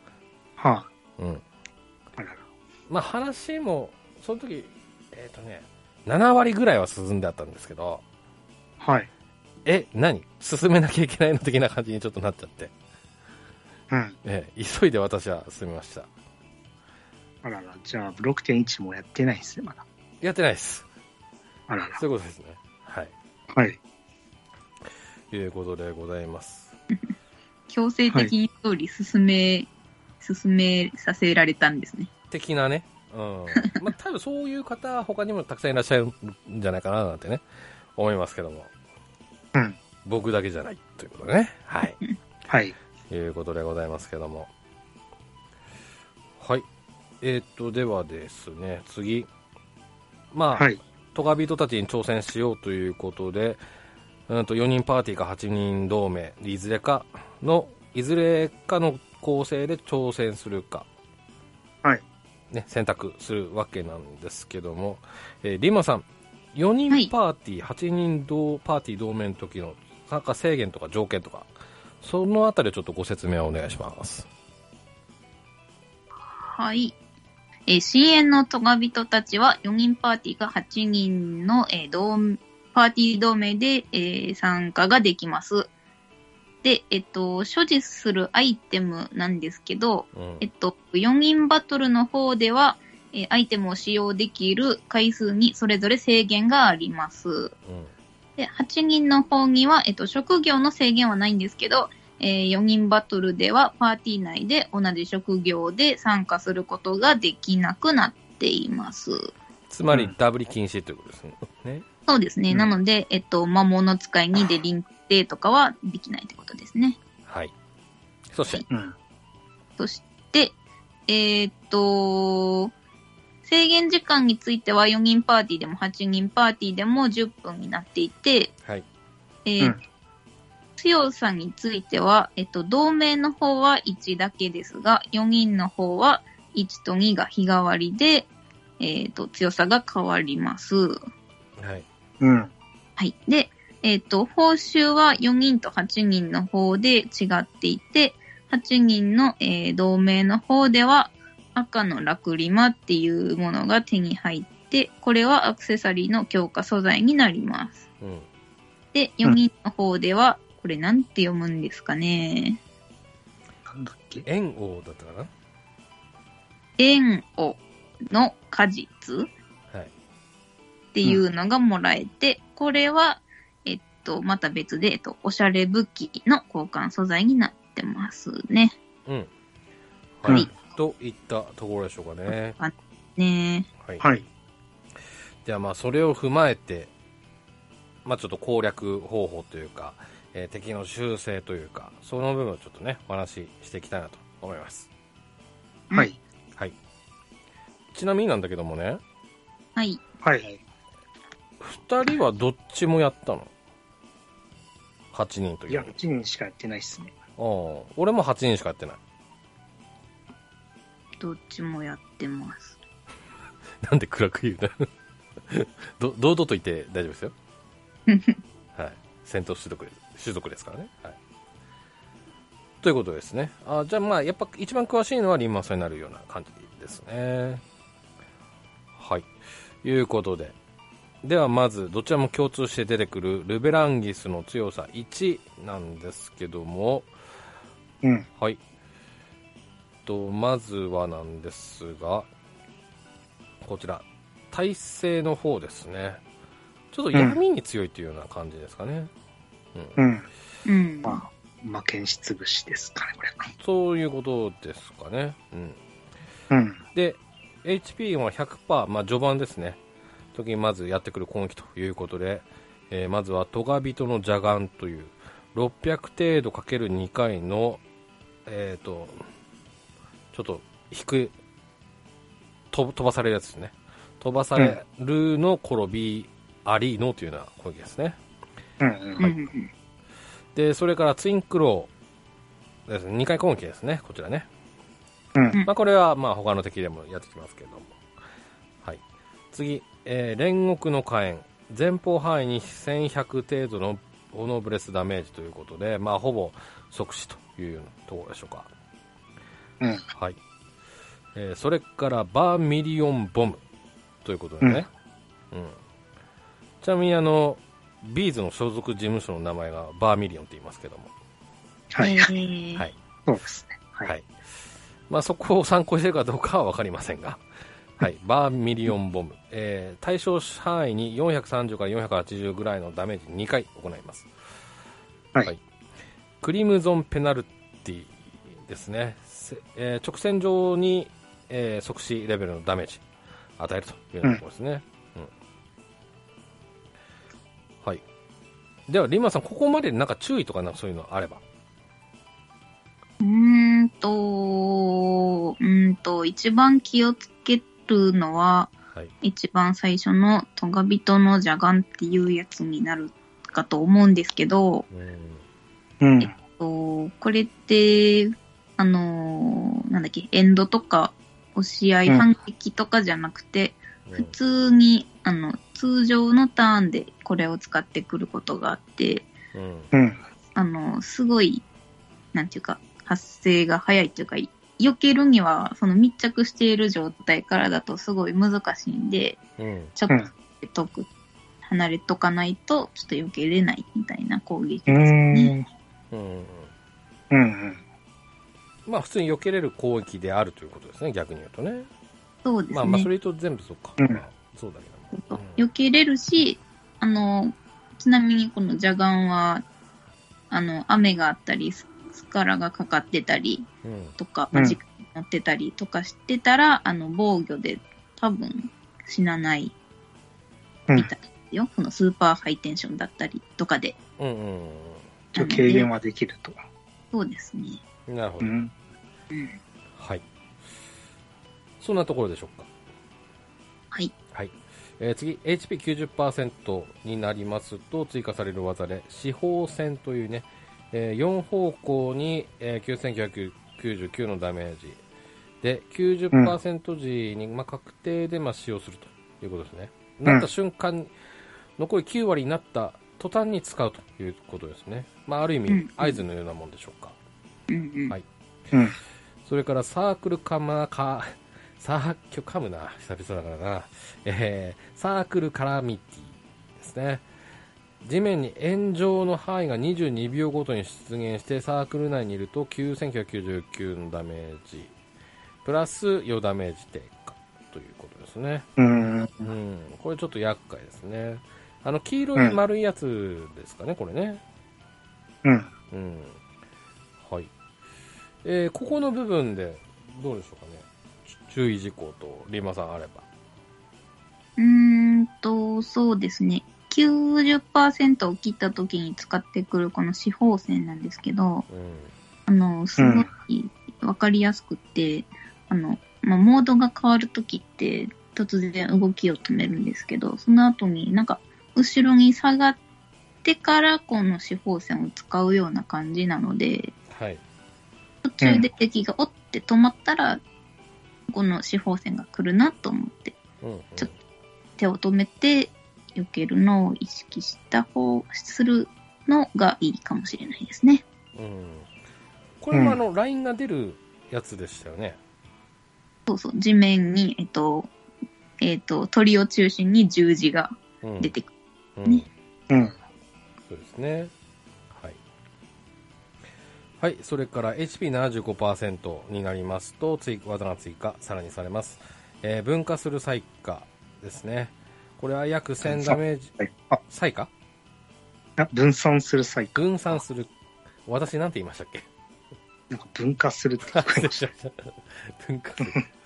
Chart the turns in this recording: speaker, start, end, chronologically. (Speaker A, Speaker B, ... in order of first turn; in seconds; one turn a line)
Speaker A: 0.6-0.9
Speaker B: 1.2-1.4
Speaker A: 2.2-2.4
Speaker B: 2.9-8.0
Speaker A: 8.8-9.1
Speaker B: 9.7-12.7
Speaker A: 13.9-14.2
Speaker B: 14.2-16.1
Speaker A: 17.4-19.9
Speaker B: 20.2-20.9
Speaker A: 21.7-22.0
Speaker B: 22.0-23.1
Speaker A: 23.5-23.8
Speaker B: 25.3-26.7
Speaker C: 27.7-29.7
Speaker C: 30.2-32.1
Speaker B: 32.3-37.4
Speaker B: 38.0-38.7
Speaker B: 40.0-42.0
Speaker A: 42.5-42.8
Speaker B: 43.1-44.5
Speaker B: 46.4-46.6
Speaker B: 47.2-49.3
Speaker B: 50.3-53.6
Speaker B: 54.3-60.9
Speaker B: 62.5-71.5
Speaker B: 72.0-74.3
Speaker C: 76.4-77.0
Speaker C: 77.7-85.7
Speaker C: 86.6-97.5
Speaker B: 90.1-90.5
Speaker B: 97.7-97.9
Speaker C: 98.4-109.3
Speaker B: 109.7-111.9
Speaker C: 112.1-117.0
Speaker B: 117.3-117.5
Speaker B: 118.3-118.6
Speaker A: 118.7-119.0
Speaker C: 119.8-120.5
Speaker C: 121.1-122.7
Speaker C: 123.4-128.5
Speaker C: 129.4-129.8
Speaker C: 130.8-138.3
Speaker C: 138.8-141.0
Speaker B: 141.6-141.8
Speaker A: 142.2-142.5
Speaker C: 143.0-157.8
Speaker B: 158.0-158.3
Speaker C: 158.9-162.6
Speaker A: 163.7-164.2
Speaker B: 164.2-165.3
Speaker C: 166.8-169.3
Speaker C: 170.9-178.8
Speaker B: 180.2-182.6
Speaker C: 182.3-183.7
Speaker A: 184.0-184.3
Speaker B: 185.4-186.9
Speaker B: 188.1-194.9
Speaker B: 197.9-199.0
Speaker C: 199.8-200.0
Speaker A: 200.2-200.6
Speaker B: 201.6-203.5
Speaker B: 205.1-205.9
Speaker A: 205.7-207.1
Speaker B: 207.4-209.0
Speaker C: 211.2-212.8
Speaker B: 213.8-214.9
Speaker B: 215.5-217.3
Speaker C: 218.1-218.4
Speaker B: 218.8-221.2
Speaker B: 222.8-227.6
Speaker B: 229.0-229.3
Speaker B: 229.8-230.6
Speaker B: 231.2-237.1
Speaker B: 240.1-242.3
Speaker B: 243.6-246.2
Speaker B: 246.9-249.1
Speaker B: 249.8-250.0
Speaker A: 250.0-250.3
Speaker C: 250.7-251.2
Speaker A: 251.0-253.5
Speaker B: 253.6-255.8
Speaker A: 256.5-256.8
Speaker B: 256.9-259.8
Speaker B: 260.4-267.8
Speaker B: 268.5-269.2
Speaker B: 270.3-271.3
Speaker B: 272.7-278.2
Speaker A: 278.8-279.3
Speaker C: 279.2-279.7
Speaker B: 280.6-281.9
Speaker B: 282.9-284.5
Speaker B: 285.6-287.9
Speaker B: 289.5-298.7
Speaker B: 301.4-303.6
Speaker B: 304.2-304.9
Speaker B: 305.5-305.8
Speaker B: 306.8-311.1
Speaker A: 311.9-312.3
Speaker C: 312.0-312.9
Speaker A: 313.3-314.1
Speaker B: 315.1-317.4
Speaker B: 318.0-324.3
Speaker B: 326.4-328.1
Speaker B: 328.6-333.0
Speaker B: 333.6-335.3
Speaker B: 338.9-341.4
Speaker C: 343.2-354.9
Speaker B: 354.9-355.4
Speaker A: 356.0-356.3
Speaker C: 356.2-369.3
Speaker B: 364.1-364.4
Speaker B: 369.5-369.9
Speaker A: 369.9-370.2
Speaker C: 370.6-371.6
Speaker C: 372.3-379.4
Speaker B: 379.6-379.9
Speaker C: 379.9-381.1
Speaker C: 381.6-385.5
Speaker A: 384.9-385.6
Speaker B: 386.1-386.7
Speaker A: 387.3-387.8
Speaker B: 388.9-391.9
Speaker C: 392.4-393.1
Speaker B: 392.7-395.7
Speaker C: 395.1-399.6
Speaker C: 400.5-409.8
Speaker B: 403.8-404.2
Speaker C: 410.9-414.0
Speaker B: 414.2-415.1
Speaker A: 415.3-416.6
Speaker C: 415.4-415.9
Speaker C: 417.1-417.8
Speaker B: 418.1-418.5
Speaker A: 418.4-418.7
Speaker C: 419.3-419.6
Speaker B: 420.0-420.2
Speaker B: 421.8-422.7
Speaker B: 424.3-435.0
Speaker B: 435.6-441.1
Speaker B: 441.8-447.2
Speaker C: 445.7-446.2
Speaker C: 447.7-448.1
Speaker A: 448.7-449.0
Speaker B: 449.4-457.2
Speaker B: 458.0-464.9
Speaker B: 465.6-468.7
Speaker A: 468.8-469.5
Speaker B: 469.4-474.4
Speaker A: 475.4-475.7
Speaker B: 475.9-476.4
Speaker B: 477.2-477.5
Speaker B: 478.4-483.2
Speaker C: 484.6-491.7
Speaker B: 491.7-492.1
Speaker C: 492.5-502.8
Speaker A: 493.0-493.3
Speaker C: 503.4-506.9
Speaker B: 507.1-507.4
Speaker C: 508.2-510.4
Speaker C: 511.3-513.4
Speaker B: 513.6-514.1
Speaker C: 514.8-521.0
Speaker B: 521.4-521.9
Speaker B: 522.6-525.2
Speaker A: 522.7-523.0
Speaker C: 526.3-527.9
Speaker C: 528.6-531.5
Speaker B: 531.0-531.3
Speaker B: 532.0-532.3
Speaker A: 532.7-533.0
Speaker B: 533.7-534.3
Speaker B: 534.9-535.2
Speaker B: 537.0-547.5
Speaker A: 545.8-547.0
Speaker A: 548.6-550.2
Speaker B: 549.8-550.5
Speaker B: 551.1-552.1
Speaker A: 552.9-554.5
Speaker B: 553.9-556.1